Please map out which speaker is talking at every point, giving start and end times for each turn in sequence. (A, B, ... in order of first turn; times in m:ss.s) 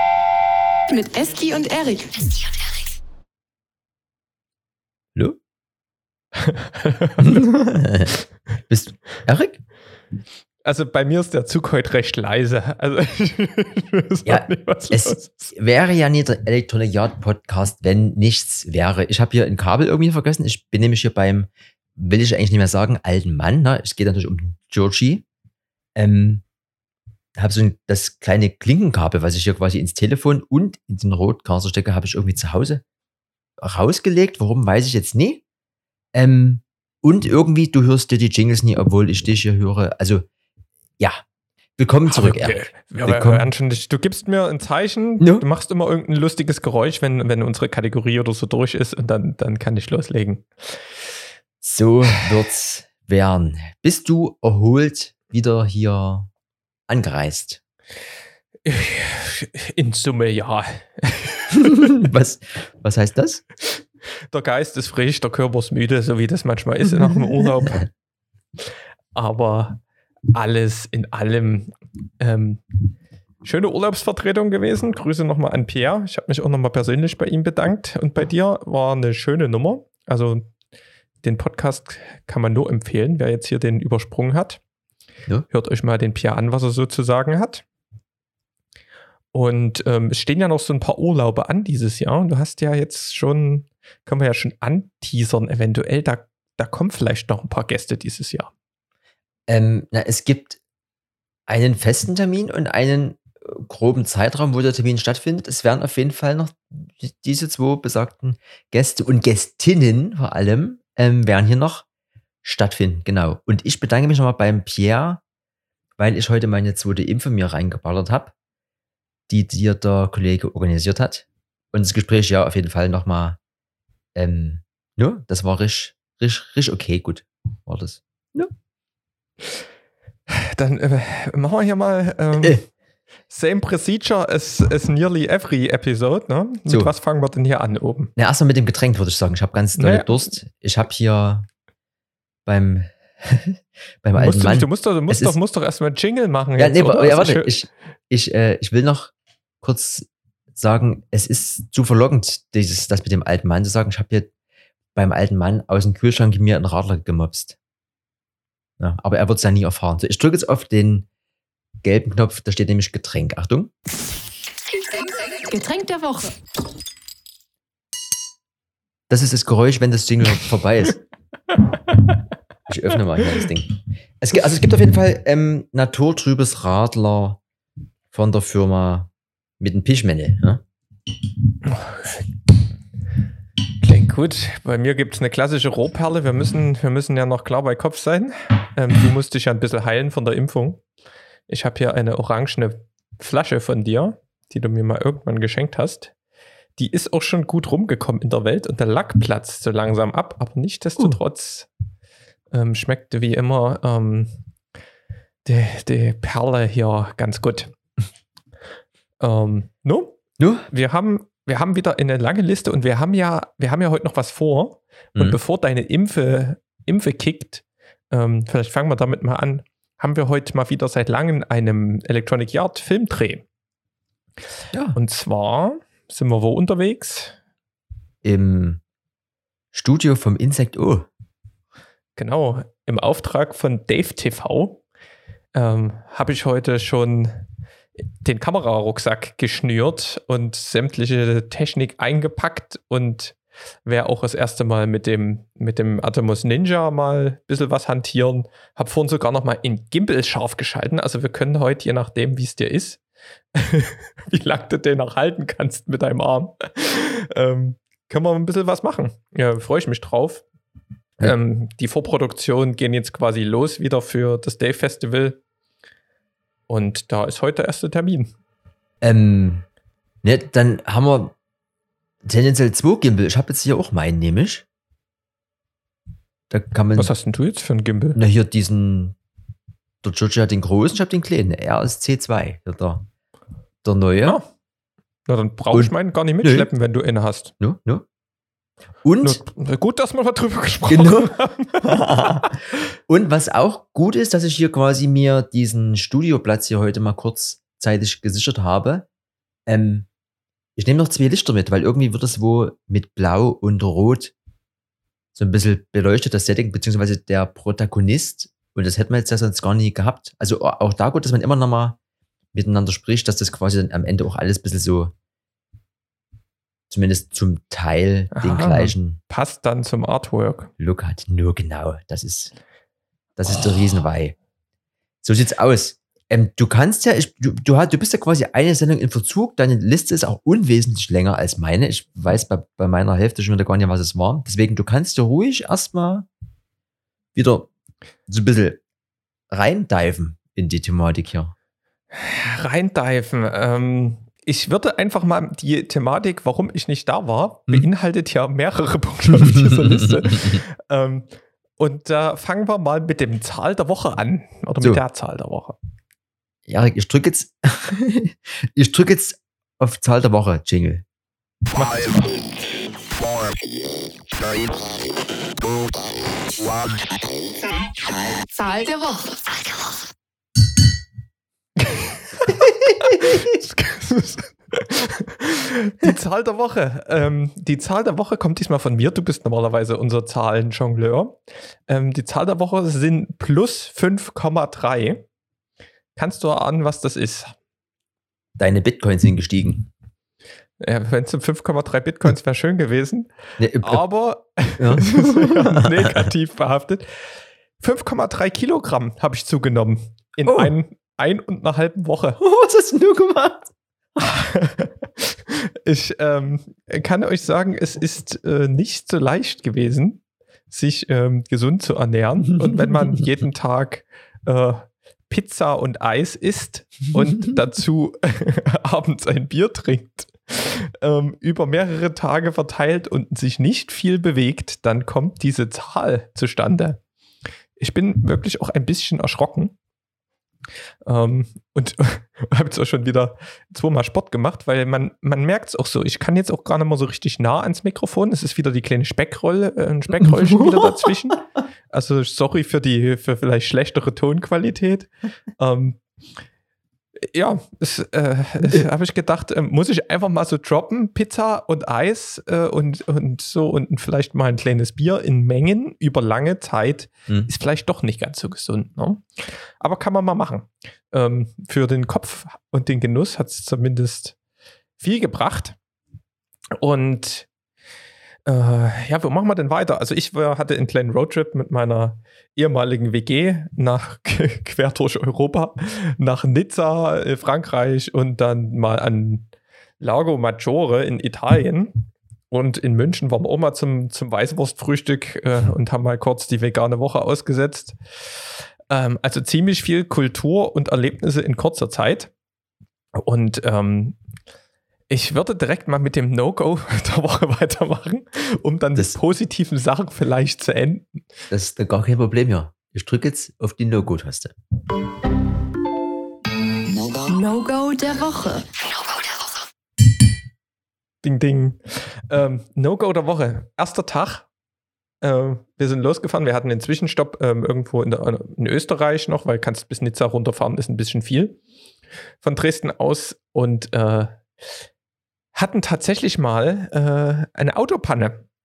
0:00.9-0:02.7 A
0:06.4-0:07.4 B
0:07.2-0:08.2 C
0:08.7-0:09.6 C
0:10.6-0:15.5 B
0:14.2-0:25.2 C
0:26.0-0:26.4 C
0:27.4-0:32.8 C
0:33.6-0:35.4 C
0:36.1-0:40.2 C
0:41.8-0:43.5 C
0:42.1-0:50.8 B
0:45.2-0:45.4 C
0:51.6-0:56.3 C
0:56.9-0:57.6 C
0:58.6-1:01.9 B
1:01.6-1:03.4 C
1:04.3-1:07.8 B
1:09.1-1:09.8 B
1:10.3-1:12.6 B
1:13.4-1:20.5 B
1:21.2-1:24.6 B
1:25.5-1:27.6 B
1:29.3-1:38.5 B
1:39.5-1:40.6 C
1:41.5-1:51.8 C
1:52.4-1:55.2 C
1:56.0-1:58.3 C
1:59.3-2:03.4 C
2:04.1-2:08.5 C
2:10.3-2:12.6 B
2:13.3-2:18.1 B
2:18.2-2:21.5 C
2:19.8-2:20.3 B
2:22.4-2:25.4 C
2:24.2-2:27.6 B
2:26.6-2:34.3 C
2:34.9-2:37.6 C
2:38.8-2:41.1 C
2:41.8-2:43.7 C
2:44.7-2:46.4 A
2:49.1-2:51.0 C
2:52.7-2:57.4 C
2:58.1-3:00.6 C
3:01.7-3:02.2 B
3:03.8-3:10.8 B
3:11.5-3:16.1 B
3:16.8-3:21.7 B
3:22.5-3:24.3 B
3:25.4-3:27.8 B
3:29.2-3:30.2 B
3:30.4-3:30.7 C
3:30.7-3:43.4 B
3:44.9-3:47.4 B
3:48.2-3:48.8 C
3:49.7-3:51.1 C
3:52.2-3:54.8 B
3:55.5-3:57.4 B
3:58.2-4:13.0 B
4:13.5-4:20.4 B
4:21.2-4:25.4 B
4:26.7-4:28.3 B
4:29.0-4:29.6 C
4:30.2-4:31.3 C
4:32.2-4:34.6 C
4:36.5-4:37.1 C
4:36.9-4:38.2 B
4:38.1-4:39.2 C
4:40.0-4:43.0 C
4:43.8-4:44.4 C
4:45.3-4:47.5 B
4:45.7-4:46.7 C
4:47.6-4:48.0 C
4:49.0-4:49.4 C
4:49.2-4:52.5 B
4:50.9-4:59.0 C
4:59.7-5:00.1 C
5:00.8-5:04.3 C
5:05.4-5:12.0 C
5:12.5-5:15.1 C
5:16.9-5:19.2 C
5:18.3-5:20.7 B
5:20.8-5:22.5 C
5:23.4-5:24.3 C
5:25.2-5:36.3 C
5:37.3-5:37.7 C
5:38.3-5:38.8 C
5:39.5-5:41.5 C
5:42.1-5:55.8 B
5:49.4-5:50.6 C
5:56.7-6:01.0 C
6:01.7-6:02.3 B
6:08.5-6:10.0 A
6:11.8-6:25.2 B
6:13.0-6:13.4 C
6:26.2-6:27.5 B
6:28.6-6:29.9 C
6:30.8-6:37.0 B
6:33.6-6:34.0 C
6:34.8-6:36.3 C
6:37.8-6:42.4 B
6:40.4-6:40.7 C
6:42.4-6:43.7 C
6:44.2-7:07.0 B
7:07.8-7:09.7 B
7:11.0-7:26.0 B
7:20.2-7:21.1 C
7:27.3-7:44.4 B
7:45.0-7:45.8 B
7:46.8-7:47.5 B
7:48.4-7:59.5 B
8:00.0-8:08.0 B
8:08.9-8:12.3 B
8:13.2-8:14.2 B
8:15.1-8:21.2 B
8:21.5-8:24.5 C
8:27.0-8:29.6 A
8:31.2-8:34.5 B
8:35.2-8:41.6 B
8:42.4-8:44.4 B
8:45.5-8:48.4 B